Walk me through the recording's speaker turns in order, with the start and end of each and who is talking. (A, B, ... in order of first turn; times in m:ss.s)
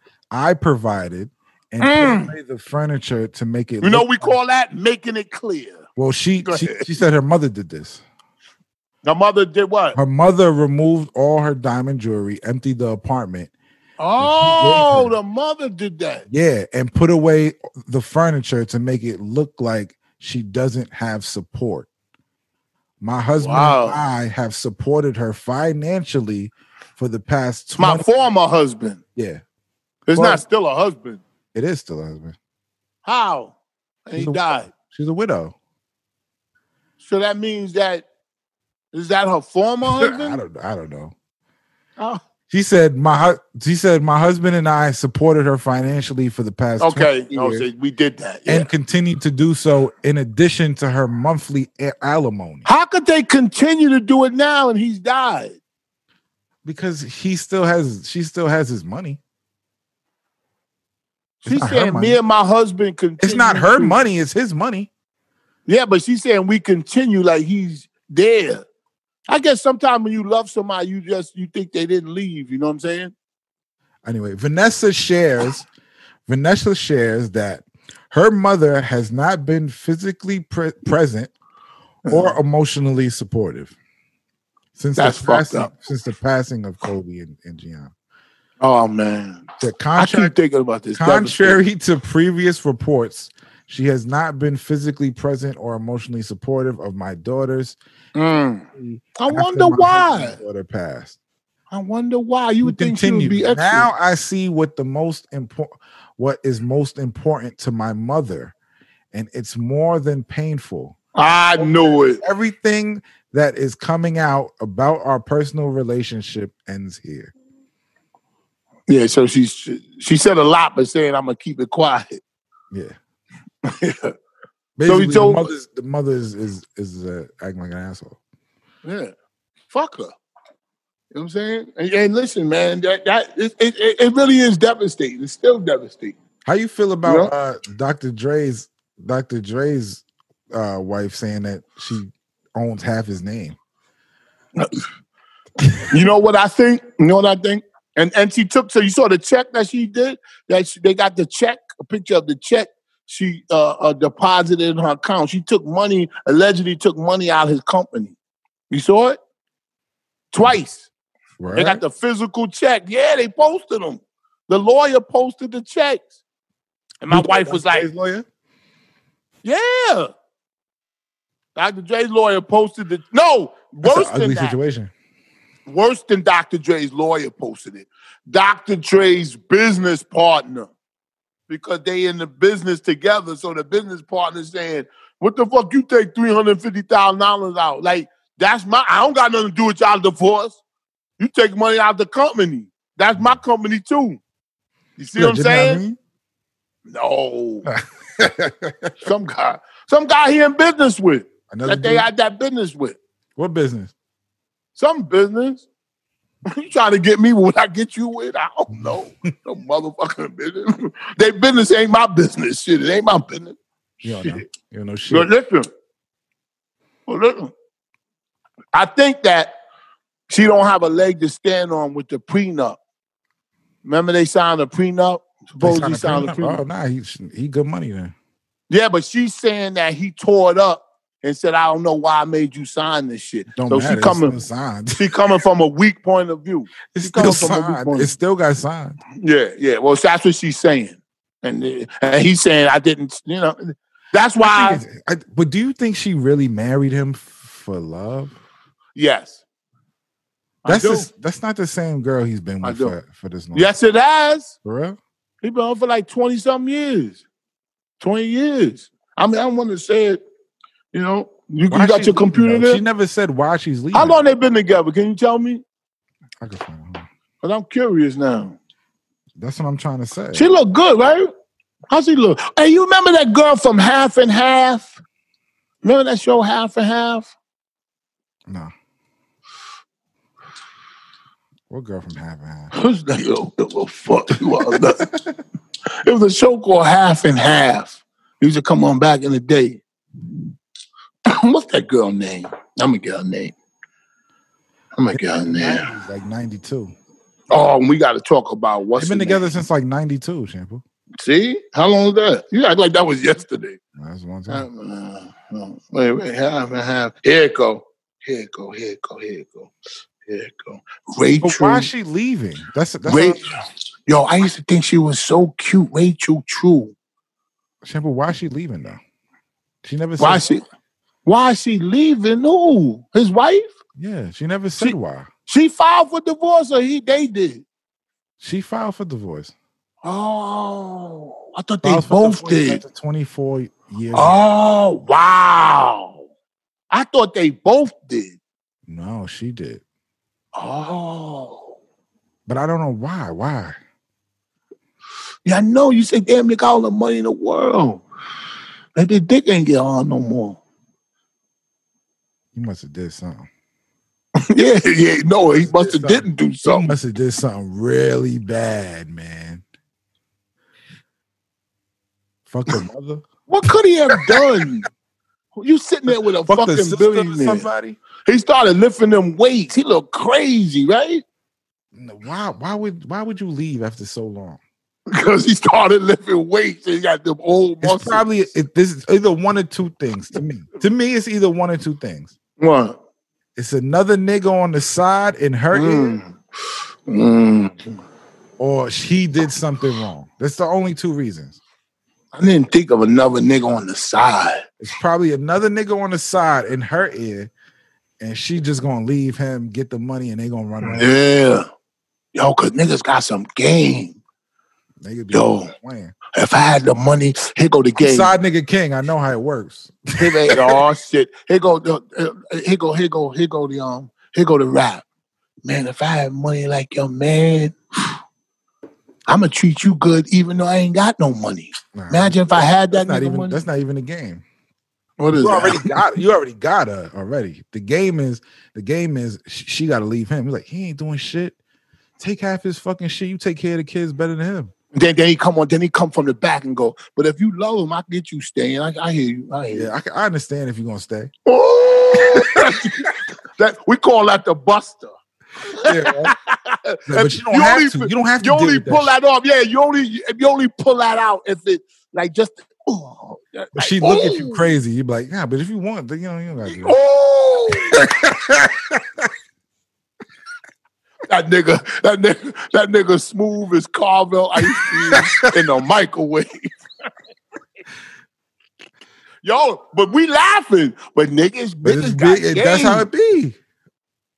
0:00.3-0:04.4 A
0:01.8-0:02.3 B
0:03.8-0:05.8 B
0:06.0-0:08.0 A
0:06.4-0:06.9 B
0:09.0-0:10.0 B
0:10.0-0:13.5 A
0:14.0-0:16.3 B
0:14.2-0:15.2 A
0:16.3-0:21.9 A
0:23.0-0:28.0 A
0:23.4-0:24.0 B
0:27.8-0:29.0 B
0:29.2-0:29.4 A
0:30.1-0:31.2 B
0:30.1-0:30.4 A
0:31.5-0:32.4 A
0:33.0-0:33.6 B
0:34.1-0:34.7 B
0:34.2-0:35.6 A
0:37.0-0:38.0 B
0:38.9-0:40.4 B
0:39.9-0:41.1 A
0:42.5-0:47.7 A
0:46.8-0:48.7 B
0:48.5-0:52.7 A
0:52.6-0:55.6 B
0:56.6-0:59.2 A
1:01.4-1:02.2 A
1:01.4-1:04.0 B
1:03.2-1:04.9 A
1:05.7-1:08.6 B
1:09.3-1:13.1 B
1:14.0-1:15.7 A
1:16.3-1:21.3 A
1:22.1-1:22.4 B
1:22.1-1:23.7 A
1:24.8-1:27.9 A
1:25.0-1:25.7 B
1:28.6-1:31.6 B
1:29.6-1:30.3 A
1:31.0-1:37.8 A
1:38.2-1:38.7 B
1:38.8-1:41.2 A
1:39.2-1:40.4 B
1:41.7-1:43.9 B
1:42.6-1:48.5 A
1:49.1-1:51.0 A
1:51.2-1:52.2 B
1:51.6-1:57.3 A
1:58.9-2:02.2 B
2:02.7-2:03.0 A
2:03.6-2:04.2 B
2:04.8-2:08.2 A
2:04.9-2:05.5 B
2:08.8-2:09.1 B
2:09.7-2:10.1 B
2:11.1-2:16.2 B
2:16.4-2:23.6 A
2:17.0-2:17.3 B
2:24.6-2:24.8 B
2:25.9-2:38.2 B
2:38.7-2:39.2 B
2:40.3-2:40.9 B
2:41.4-2:41.8 A
2:41.6-2:46.1 B
2:47.0-2:47.9 B
2:47.1-2:48.3 A
2:49.4-2:50.1 B
2:51.6-2:54.6 B
2:53.8-2:54.9 A
2:55.7-3:00.7 B
3:01.5-3:10.6 B
3:11.2-3:14.2 B
3:15.0-3:15.8 B
3:15.2-3:16.0 A
3:16.9-3:17.7 B
3:17.7-3:18.9 A
3:19.0-3:23.0 B
3:21.5-3:22.1 A
3:23.4-3:23.9 A
3:24.8-3:25.7 B
3:26.5-3:34.4 B
3:34.0-3:35.3 A
3:35.1-3:35.7 B
3:37.1-3:37.5 B
3:38.7-3:39.6 B
3:40.3-3:42.8 B
3:43.8-3:46.6 B
3:45.6-3:48.1 A
3:48.7-3:54.4 B
3:53.5-3:55.0 A
3:55.0-3:58.1 B
3:56.9-3:59.0 A
3:59.2-4:04.8 B
4:04.4-4:08.4 A
4:09.0-4:09.4 B
4:10.6-4:11.1 B
4:10.7-4:13.7 A
4:12.6-4:13.0 B
4:13.5-4:14.5 B
4:14.6-4:15.0 A
4:15.4-4:17.2 B
4:18.0-4:20.2 B
4:20.9-4:22.8 B
4:21.7-4:24.2 A
4:23.9-4:25.6 B
4:26.4-4:27.1 A
4:27.4-4:28.6 B
4:29.4-4:30.5 A
4:30.3-4:31.3 B
4:31.9-4:34.9 B
4:35.8-4:37.3 B
4:41.7-4:42.7 A
4:42.7-4:45.1 B
4:44.5-4:44.8 A
4:46.0-4:49.8 B
4:51.3-4:53.6 B
4:55.0-4:55.9 B
4:55.1-4:56.9 A
4:57.5-4:59.5 B
4:59.0-5:00.8 A
5:01.2-5:03.8 B
5:04.0-5:04.7 A
5:04.5-5:09.7 B
5:10.2-5:11.9 B
5:11.4-5:13.5 A
5:13.1-5:13.6 B
5:14.1-5:17.0 B
5:17.8-5:19.0 A
5:19.8-5:20.5 A
5:20.2-5:20.6 B
5:21.2-5:23.7 B
5:24.0-5:25.3 A
5:25.5-5:27.6 B
5:28.4-5:29.5 A
5:30.0-5:32.8 B
5:31.8-5:34.4 A
5:34.1-5:36.2 B
5:36.9-5:38.4 B
5:38.9-5:39.8 A
5:40.6-5:41.8 B
5:42.5-5:43.8 A
5:45.4-5:48.0 B
5:49.0-5:50.6 B
5:52.5-5:53.5 A
5:54.5-5:56.9 B
5:55.5-5:59.6 A
6:02.5-6:03.3 A
6:03.5-6:04.9 B
6:04.1-6:04.4 A
6:05.6-6:07.7 B
6:06.1-6:08.0 A
6:08.2-6:11.2 B
6:11.9-6:14.6 A
6:15.1-6:18.2 B
6:17.8-6:22.4 A
6:22.6-6:23.0 B
6:23.6-6:26.2 A
6:25.7-6:26.4 B
6:27.1-6:28.0 B
6:28.6-6:31.6 A
6:32.3-6:34.6 B
6:34.8-6:37.5 A
6:38.2-6:41.1 A
6:40.8-6:41.7 B
6:42.4-6:44.2 B
6:45.0-6:46.2 A
6:45.3-6:45.7 B
6:46.4-6:48.3 B
6:48.0-6:50.8 A
6:50.2-6:55.0 B
6:55.6-6:57.8 B
6:59.3-7:03.6 B
7:01.9-7:04.4 A
7:05.2-7:06.0 B
7:05.3-7:11.6 A
7:12.2-7:14.7 A
7:15.0-7:19.9 B
7:19.7-7:21.3 A
7:21.5-7:34.7 B
7:25.8-7:26.3 A
7:27.1-7:29.1 A
7:33.8-7:37.0 A
7:36.7-7:38.1 B
7:37.9-7:39.3 A
7:41.3-7:46.7 B
7:45.1-7:45.5 A
7:49.4-7:53.1 B
7:51.8-7:53.6 A